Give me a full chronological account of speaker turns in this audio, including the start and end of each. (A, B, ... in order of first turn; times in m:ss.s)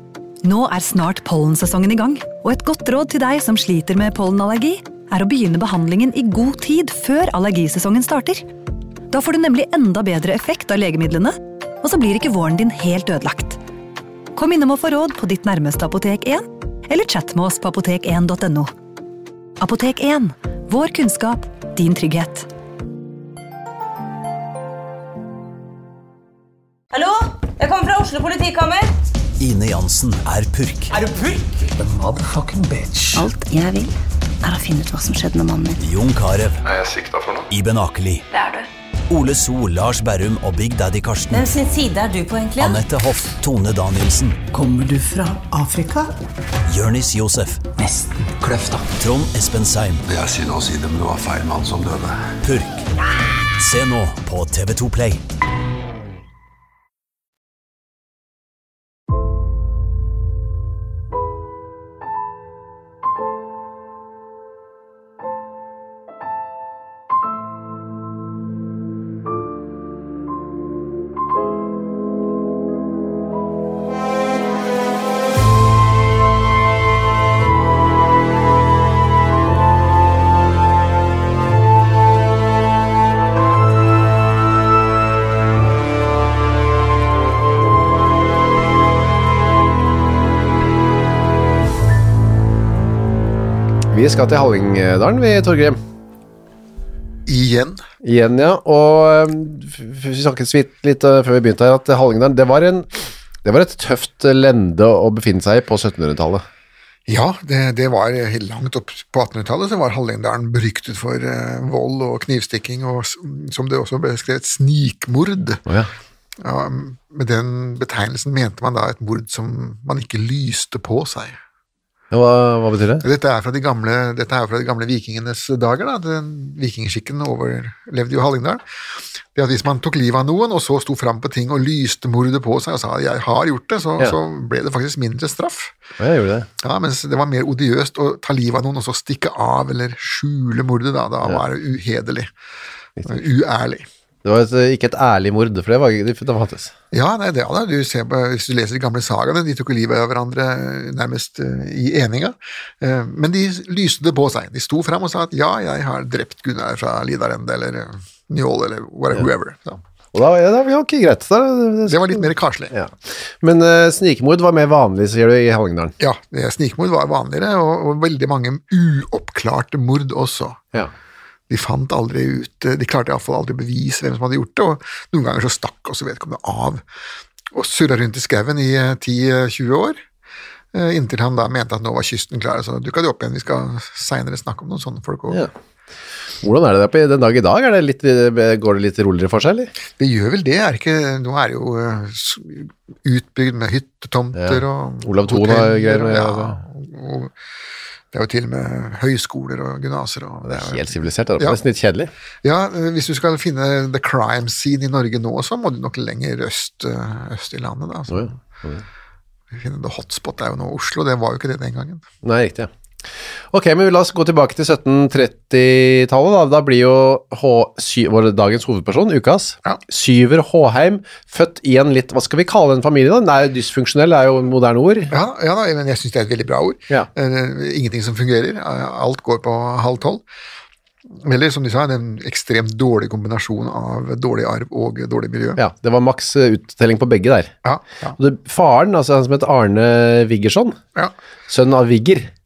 0:00.4-0:08.4 A
0:09.1-0:13.6 A
0:14.4-0:18.7 A
0:19.6-0:22.5 A
0:26.9-0:28.9 B
0:29.4-0:31.0 C
0:31.7-0:33.1 D
0:33.1-0:35.8 E
0:35.8-0:36.6 C
0:36.6-0:37.5 F
0:37.5-0:38.3 C
0:39.1-0:41.5 C
0:41.3-0:42.8 B
0:42.6-0:44.4 C
0:44.5-0:46.1 D
0:46.7-0:47.8 C
0:47.8-0:48.9 D
0:48.9-0:50.0 C
0:50.1-0:52.3 F
0:52.4-0:52.9 C
0:53.6-0:55.2 C
1:33.9-1:35.8 G
1:37.3-1:37.8 H
1:38.0-1:42.9 G
1:43.4-1:46.4 G
1:47.1-1:55.6 H
1:55.7-1:55.9 G
1:56.4-2:01.4 H
2:02.1-2:03.0 G
2:03.0-2:08.6 H
2:09.3-2:15.8 H
2:16.0-2:16.5 G
2:16.6-2:22.3 H
2:23.0-2:23.2 G
2:23.1-2:23.9 H
2:24.2-2:26.7 G
2:26.9-2:39.8 H
2:40.1-2:46.0 G
2:41.9-2:42.7 H
2:46.0-2:50.6 H
2:51.5-2:56.8 H
2:57.5-3:00.0 H
3:00.7-3:05.5 H
3:06.4-3:09.7 G
3:10.0-3:17.3 H
3:14.4-3:16.6 G
3:18.1-3:21.6 H
3:20.5-3:22.1 G
3:22.4-3:28.4 H
3:28.1-3:28.8 G
3:29.5-3:32.0 H
3:32.2-3:32.7 G
3:33.5-3:45.1 G
3:45.1-3:50.2 H
3:51.2-3:55.6 H
3:55.6-3:57.5 G
3:57.6-3:58.2 H
3:58.2-4:00.8 G
4:01.5-4:02.3 G